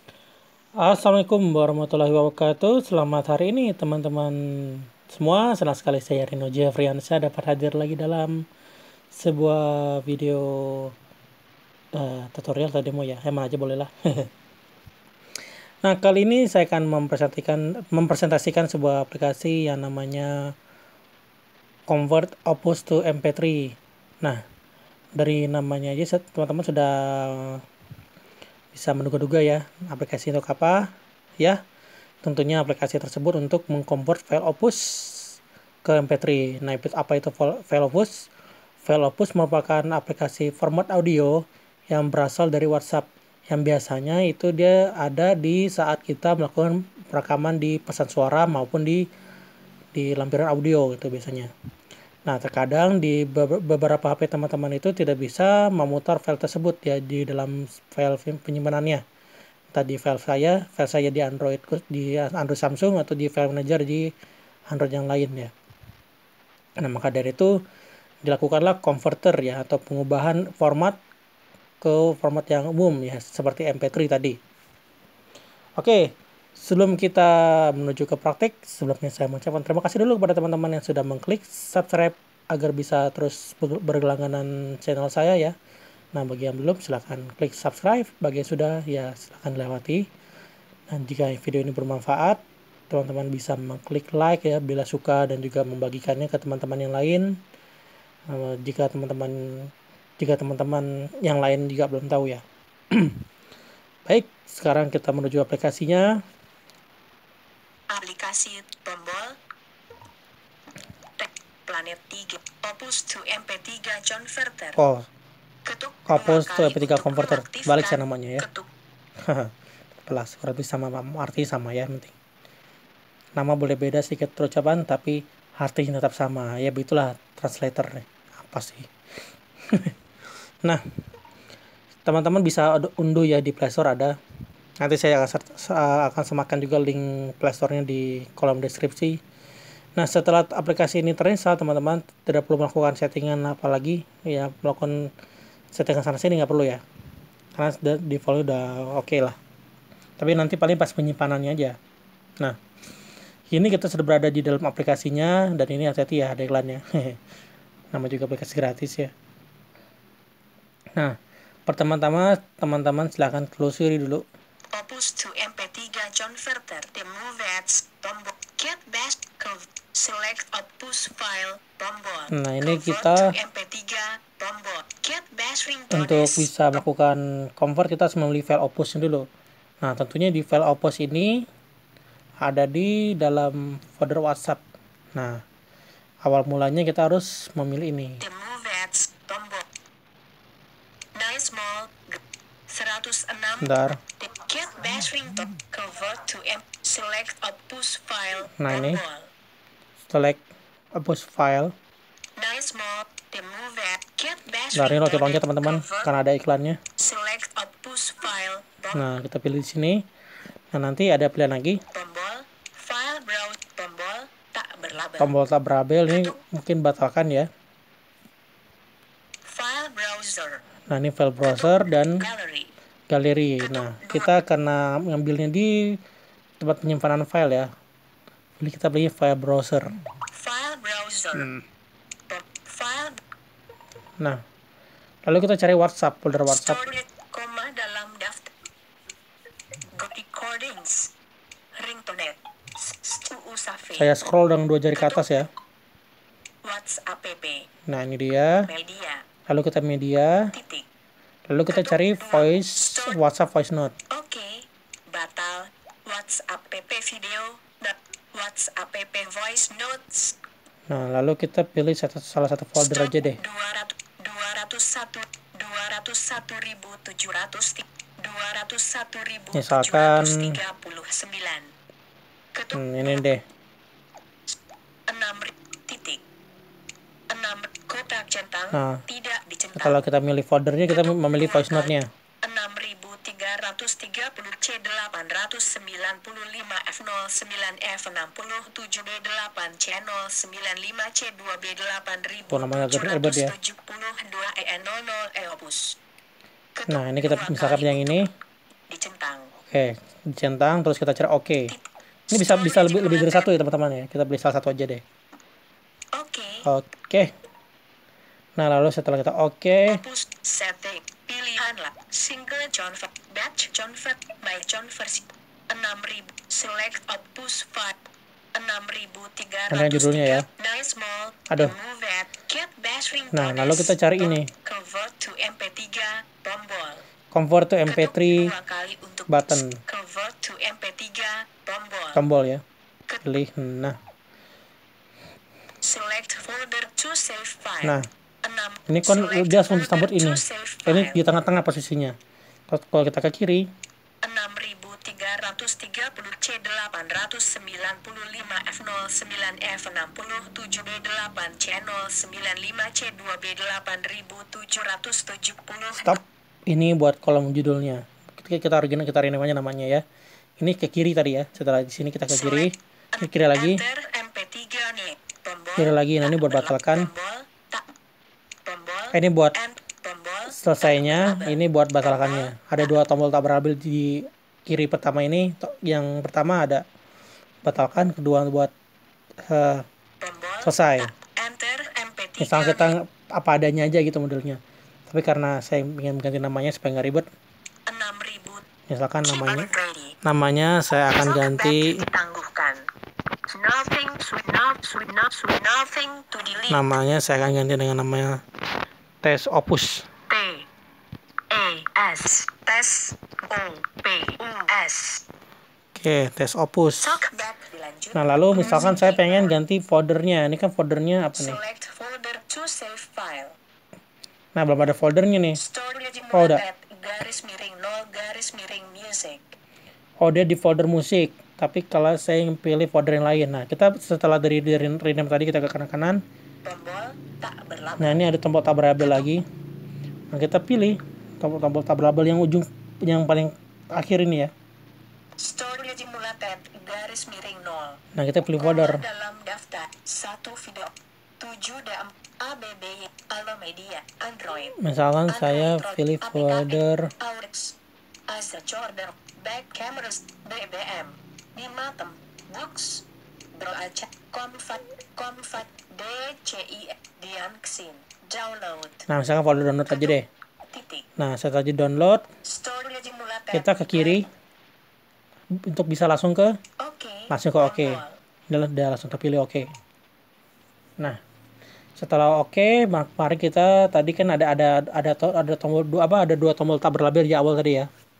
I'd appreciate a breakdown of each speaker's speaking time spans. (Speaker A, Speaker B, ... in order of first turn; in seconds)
Speaker A: 0.8-8.4, 9.1-10.9, 11.9-14.3, 15.8-20.5, 21.9-24.4, 25.1-27.6, 28.7-30.9, 32.2-38.3, 38.8-49.0, 49.9-51.5, 52.2-59.0, 59.7-64.1, 64.7-65.5, 66.8-67.6, 68.2-71.0, 71.8-74.4, 75.8-85.5, 86.1-90.0, 90.9-97.3, 98.3-103.2, 104.1-106.1, 114.8-115.0, 116.1-118.4, 119.2-119.5, 120.0-122.1, 123.3-128.9, 129.7-129.9, 132.0-134.1, 134.8-139.2, 140.0-145.1, 145.7-146.8, 147.6-149.4, 150.2-151.8, 153.5-157.2, 157.9-159.1, 161.7-164.2, 172.3-173.3, 175.9-179.3, 179.8-181.4, 182.4-184.6, 186.2-188.2, 193.6-194.0, 198.6-199.0, 200.1-200.4, 200.9-201.7, 204.7-206.8, 208.9-210.0, 210.7-211.8, 215.2-217.5, 220.9-222.2, 223.1-226.0, 226.6-227.7, 228.6-229.9, 231.3-231.6, 235.2-236.8, 243.9-245.5, 247.9-248.7, 249.5-250.5, 251.5-253.9, 260.9-263.4, 269.5-270.6, 272.7-273.4, 278.7-279.0, 279.8-282.1, 292.5-293.5, 296.9-298.3, 299.6-301.7, 302.3-305.0, 306.6-307.3, 308.6-310.0, 319.7-320.4, 323.3-324.5, 327.3-328.5, 329.3-329.8, 332.1-332.6, 333.2-334.0, 338.9-342.1, 342.7-343.7, 356.0-360.0, 360.6-363.8, 365.8-367.1, 369.1-369.6, 370.5-376.8, 377.6-378.7, 379.4-379.8, 380.6-381.1, 382.4-387.2, 388.9-389.7, 390.2-392.0, 396.7-398.4, 399.2-400.1, 405.9-407.2, 408.1-411.6, 414.6-415.6, 416.3-416.6, 420.2-426.2, 428.0-429.4, 430.3-434.5, 438.1-439.0, 444.8-447.1, 459.1-460.2, 461.2-462.2, 463.5-464.2, 465.6-466.5, 467.3-469.7, 472.0-477.9
Speaker B: 107.9-109.4, 111.2-114.8, 115.6-118.7, 164.7-176.8, 188.2-189.7, 191.1-199.3, 202.4-206.1, 207.0-209.1, 211.9-215.3, 216.1-216.4, 219.4-220.6, 221.4-222.7, 223.6-224.3, 230.3-231.5, 232.3-233.2, 236.5-238.5, 239.9-241.1, 241.8-244.1, 244.9-245.4, 246.6-247.6, 248.6-249.2, 250.5-250.9, 251.7-253.2, 254.1-260.4, 262.8-271.7, 272.5-273.2, 275.1-276.2, 277.3-280.0, 280.9-296.0, 296.7-298.3, 298.9-299.5, 301.7-303.5, 306.1-306.7, 309.9-318.0, 318.5-327.0, 327.9-332.2, 335.8-341.2, 344.2-356.2, 362.3-367.9, 368.6-372.9, 380.2-382.9, 387.9-388.6, 389.2-390.1, 391.1-392.9, 393.5-396.9, 400.3-400.7, 401.5-405.2, 407.0-409.6, 411.3-413.6, 415.5-419.6, 426.6-428.2, 429.0-429.3, 435.4-438.0, 438.6-444.8, 445.3-447.8, 448.3-459.1, 459.9-460.2, 460.7-461.1, 462.4-464.2, 466.8-468.2